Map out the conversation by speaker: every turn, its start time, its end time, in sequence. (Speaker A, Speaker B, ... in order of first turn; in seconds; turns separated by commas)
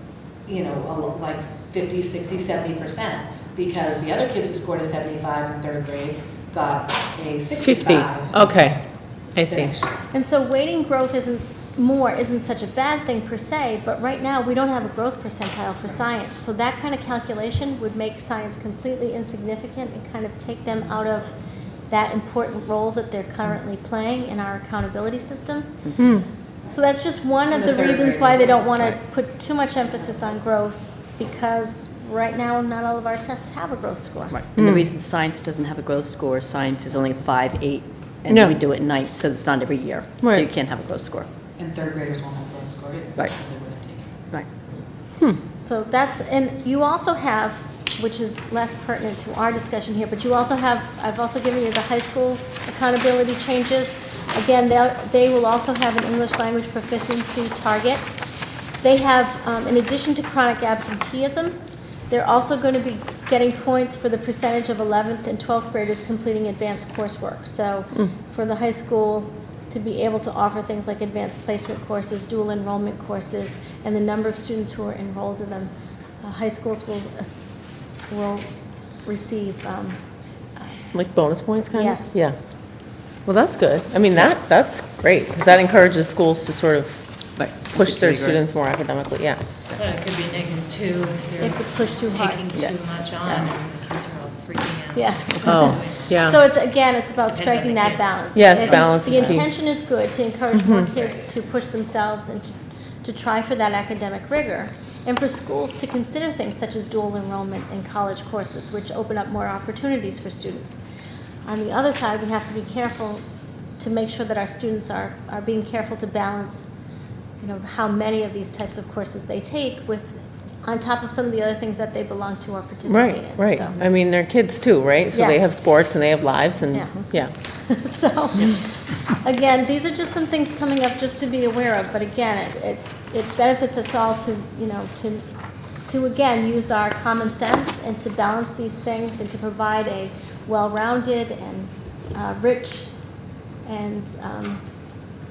Speaker A: 0.5-8.3, Speaker B: 7.6-9.8, Speaker A: 9.5-9.9, Speaker C: 10.1-21.3, Speaker C: 21.9-25.9, Speaker B: 26.0-26.3, Speaker C: 26.7-34.4, Speaker A: 27.5-28.9, Speaker D: 34.3-41.3, Speaker B: 34.5-34.9, Speaker B: 38.3-38.6, Speaker B: 40.2-40.5, Speaker A: 41.6-44.2, Speaker C: 45.6-58.1, Speaker C: 58.8-61.6, Speaker C: 62.1-77.4, Speaker C: 78.1-78.5, Speaker C: 79.0-80.0, Speaker B: 80.9-89.4, Speaker C: 81.7-82.2, Speaker D: 87.4-88.4, Speaker E: 89.8-96.4, Speaker C: 91.4-92.4, Speaker C: 94.9-110.8, Speaker B: 95.4-96.4, Speaker E: 97.3-99.3, Speaker B: 98.3-99.5, Speaker B: 100.5-100.9, Speaker C: 111.4-113.2, Speaker C: 113.8-116.7, Speaker C: 117.4-123.8, Speaker B: 122.8-127.3, Speaker C: 125.1-125.5, Speaker C: 126.7-135.3, Speaker C: 135.9-142.9, Speaker C: 143.6-144.6